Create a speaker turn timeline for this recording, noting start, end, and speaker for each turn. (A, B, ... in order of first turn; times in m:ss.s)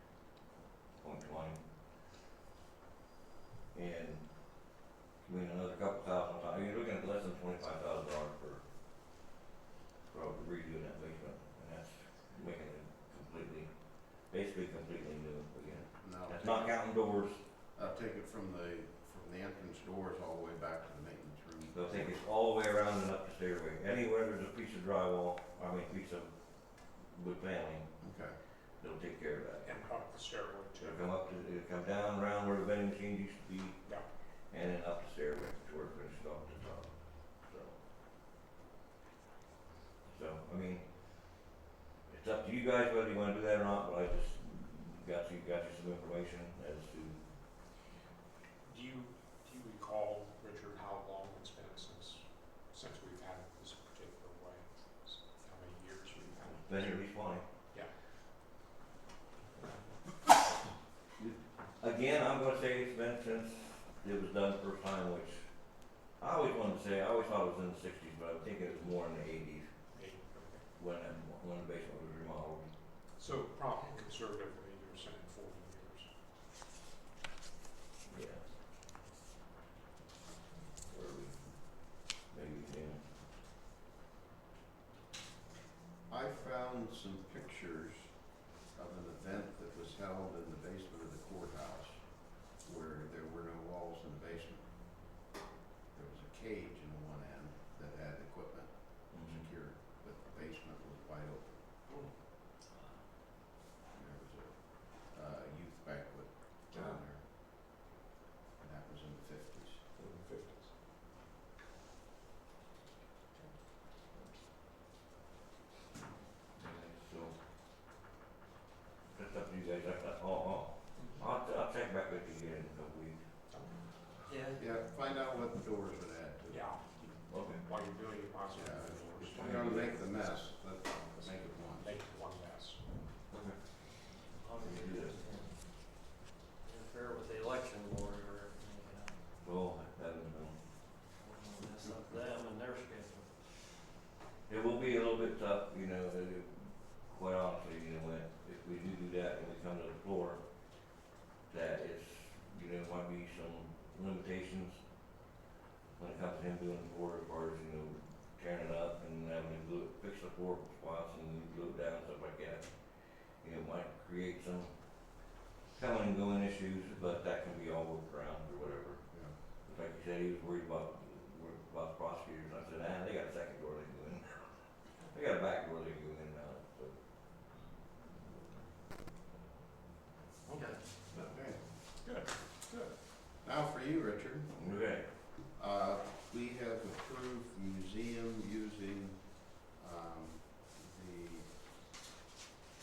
0:01.0-0:01.6 A
0:03.7-0:04.7 A
0:05.2-0:08.6 A
0:10.1-0:17.4 A
0:15.8-0:16.9 B
0:17.7-0:22.2 B
0:21.7-0:27.9 A
0:28.0-0:28.4 B
0:28.8-0:29.7 A
0:29.6-0:31.1 C
0:30.8-0:37.8 A
0:40.0-0:41.3 A
0:42.1-0:47.2 A
0:48.6-0:56.6 C
0:56.1-0:57.4 A
1:01.2-1:09.7 A
1:09.9-1:10.6 C
1:10.8-1:12.7 A
1:13.2-1:16.1 C
1:18.1-1:18.5 A
1:20.8-1:23.1 A
1:26.1-1:28.2 B
1:28.7-1:34.7 B
1:35.9-1:41.8 B
1:39.1-1:39.4 A
1:43.9-1:47.3 B
1:48.6-1:49.8 B
1:50.0-1:50.7 C
1:56.5-1:57.3 A
1:59.1-2:03.2 A
2:03.5-2:03.8 C
2:04.2-2:04.6 D
2:04.6-2:06.7 B
2:06.5-2:09.9 C
2:07.3-2:07.6 A
2:08.5-2:11.9 B
2:09.2-2:10.0 A
2:11.1-2:12.8 C
2:13.3-2:13.8 A
2:14.4-2:15.5 D
2:14.6-2:15.2 A
2:16.6-2:19.2 D
2:19.4-2:20.6 A
2:21.2-2:23.3 D
2:24.5-2:30.5 A
2:31.5-2:34.8 A
2:36.0-2:45.2 A
2:45.7-2:57.0 A
3:00.4-3:00.9 D
3:01.1-3:01.6 B
3:02.0-3:02.9 C
3:03.4-3:04.5 B
3:04.5-3:05.1 A
3:05.5-3:11.4 B